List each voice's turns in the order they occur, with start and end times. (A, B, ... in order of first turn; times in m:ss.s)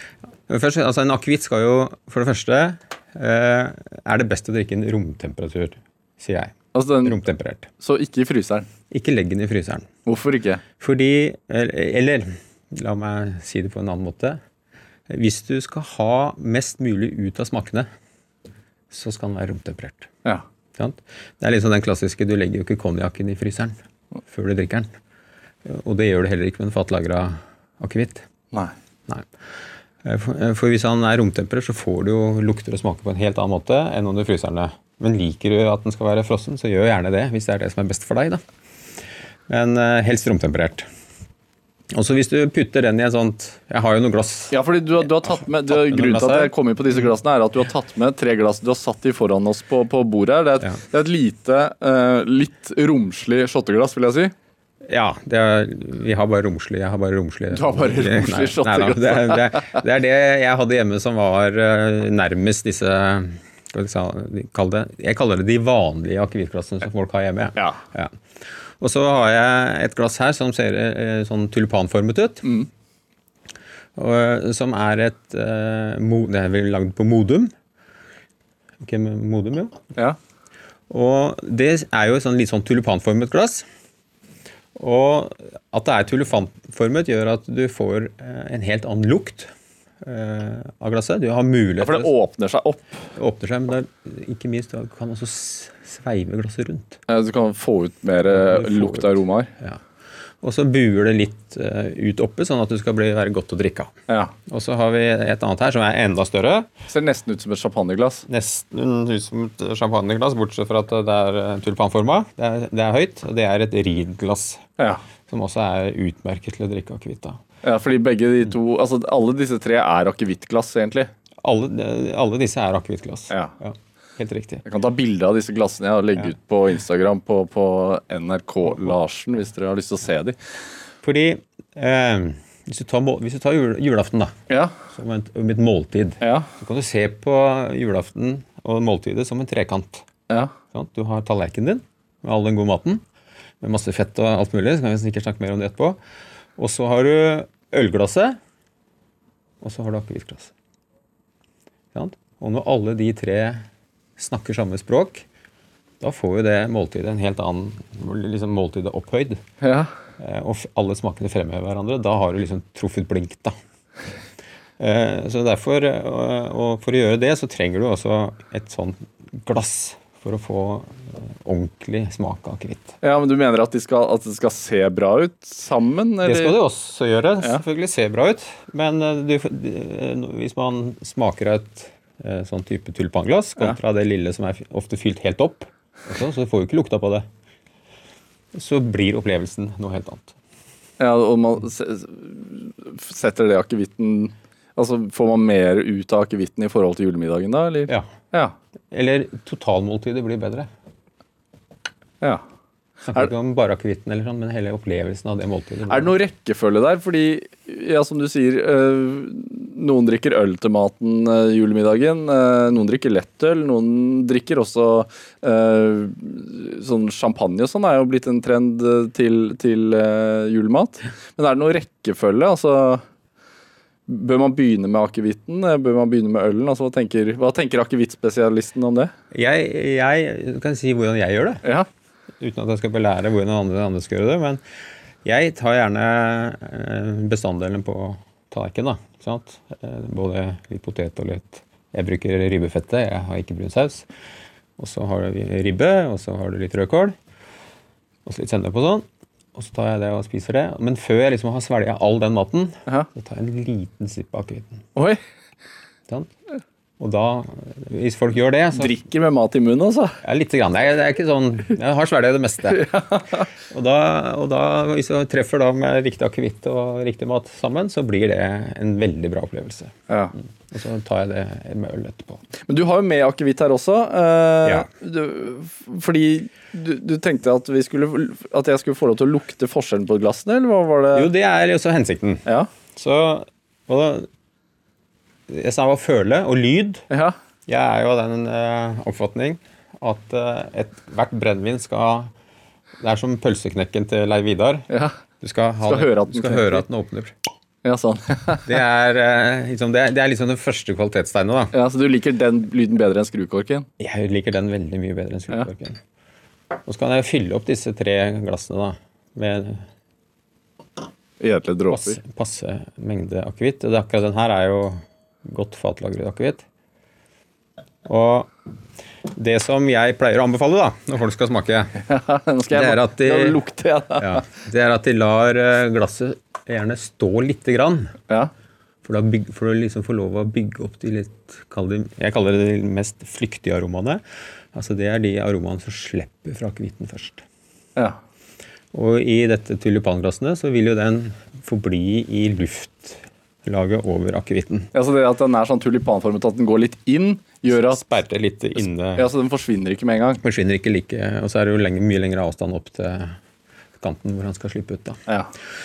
0:00.5-0:07.7 A
0:06.7-0:07.2 B
0:07.8-0:08.7 B
0:08.9-0:09.9 A
0:10.1-0:10.6 B
0:10.8-0:14.4 A
0:15.1-0:17.9 A
0:18.9-0:20.1 A
0:20.8-0:23.7 A
0:24.3-0:24.9 A
0:25.6-0:28.3 A
0:30.0-0:38.4 A
0:39.5-0:40.9 A
0:41.9-0:44.6 A
0:44.5-0:54.3 B
0:45.7-0:46.5 A
0:54.9-1:08.2 A
0:57.5-0:59.8 B
1:08.8-1:12.4 A
1:14.0-1:17.5 A
1:18.8-1:19.8 A
1:20.9-1:23.6 A
1:24.8-1:29.5 A
1:30.0-1:32.1 A
1:31.8-1:32.8 B
1:33.2-1:37.0 A
1:37.1-1:39.5 B
1:38.3-1:39.8 A
1:40.4-1:43.9 A
1:44.1-1:44.3 B
1:44.5-1:46.7 A
1:46.9-1:48.3 B
1:48.3-1:54.6 A
1:55.3-1:57.4 A
1:57.6-2:01.1 B
2:01.4-2:04.6 A
2:04.7-2:10.4 B
2:11.0-2:14.4 A
2:14.5-2:14.8 B
2:14.9-2:20.0 A
2:16.2-2:16.5 B
2:20.3-2:20.5 B
2:20.7-2:23.0 A
2:23.6-2:26.0 A
2:26.6-2:28.4 A
2:29.6-2:30.5 A
2:31.9-2:33.6 A
2:34.2-2:35.2 A
2:36.0-2:39.4 A
2:39.6-2:39.9 B
2:40.2-2:43.6 A
2:44.8-2:53.0 A
2:53.0-2:56.6 B
2:56.2-3:07.3 A
3:08.5-3:10.4 A
3:11.0-3:18.6 B
3:18.9-3:20.7 A
3:23.1-3:26.1 A
3:25.9-3:43.0 B
3:44.1-3:49.1 B
3:49.3-3:51.6 A
3:52.4-3:54.6 A
3:55.2-4:04.1 A
4:04.8-4:07.2 A
4:08.3-4:14.9 A
4:15.0-4:15.2 B
4:17.0-4:19.0 A
4:18.7-4:20.2 B
4:20.2-4:22.9 A
4:22.7-4:23.5 B
4:23.7-4:29.9 A
4:30.1-4:30.3 B
4:30.7-4:32.4 A
4:32.7-4:41.3 B
4:41.2-4:44.3 A
4:45.5-4:47.0 A
4:47.1-4:47.4 B
4:47.7-4:52.3 A
4:53.0-4:54.9 A
4:54.9-4:55.2 B
4:55.4-4:57.3 A
4:55.8-4:56.8 B
4:57.8-4:58.7 B
4:58.7-5:01.7 A
5:01.7-5:03.9 B
5:04.0-5:06.0 A
5:06.8-5:09.8 A
5:11.4-5:12.2 B
5:11.9-5:16.6 A
5:18.0-5:18.5 A
5:19.3-5:22.0 A
5:22.0-5:24.4 B
5:22.7-5:23.6 A
5:24.2-5:28.2 A
5:29.0-5:34.2 A
5:34.7-5:37.4 A
5:38.9-5:44.9 A
5:44.9-5:48.0 B
5:47.7-5:49.3 A
5:49.2-5:50.4 B
5:50.4-5:53.4 A
5:54.0-5:55.2 A